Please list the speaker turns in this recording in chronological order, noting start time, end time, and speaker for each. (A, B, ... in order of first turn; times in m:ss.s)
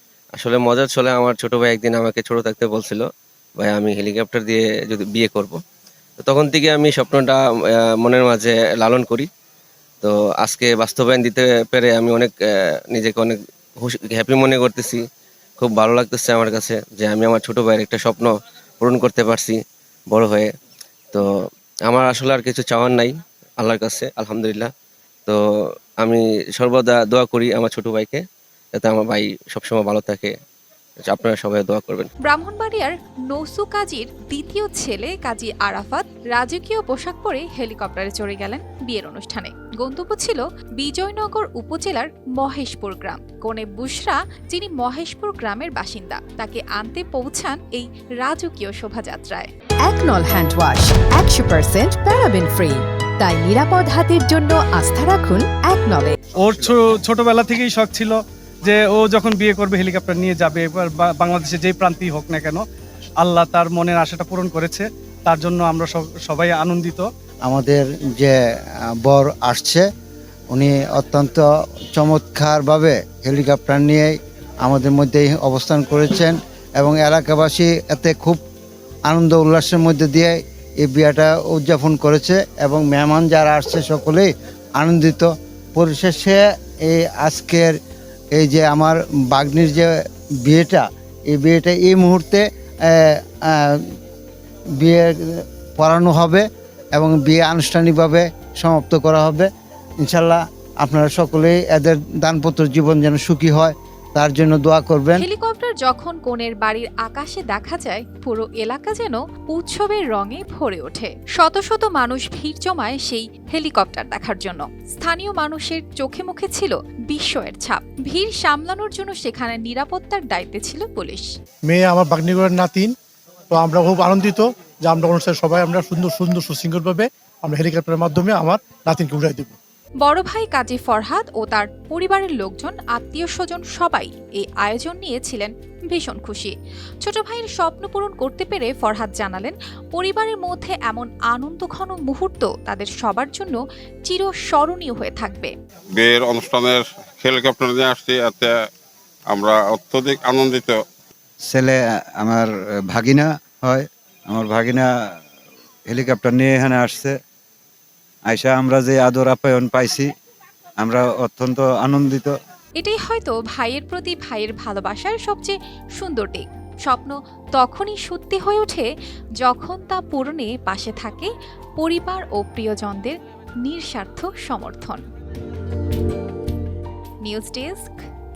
0:00.4-0:03.0 A
0:03.6-0:05.6 A
0:06.2-0:07.4 A
0:08.0-0:09.3 A
0:10.0-0:12.3 A
0:12.9-0:15.0 A
0:15.6-0:19.6 A
0:20.1-0:20.5 A
0:21.9-0:24.7 A
0:26.0-0:28.2 A
0:28.7-0:30.3 A
0:31.1-0:32.1 A
0:32.2-0:49.5 B
0:49.8-0:56.2 C
0:56.4-1:02.6 D
1:03.2-1:07.1 D
1:07.4-1:09.9 E
1:10.5-1:18.4 E
1:19.1-1:27.8 E
1:28.4-1:33.9 E
1:34.8-1:36.4 E
1:37.0-1:39.5 E
1:40.0-1:45.3 E
1:45.2-2:01.3 B
2:01.7-2:02.9 F
2:03.5-2:09.6 F
2:10.0-2:25.5 B
2:25.9-2:28.7 G
2:29.3-2:30.8 G
2:31.5-2:34.9 H
2:35.9-2:37.2 H
2:38.3-2:40.1 H
2:40.8-2:42.4 H
2:42.8-2:48.9 B
2:49.4-2:55.0 B
2:57.2-2:58.0 B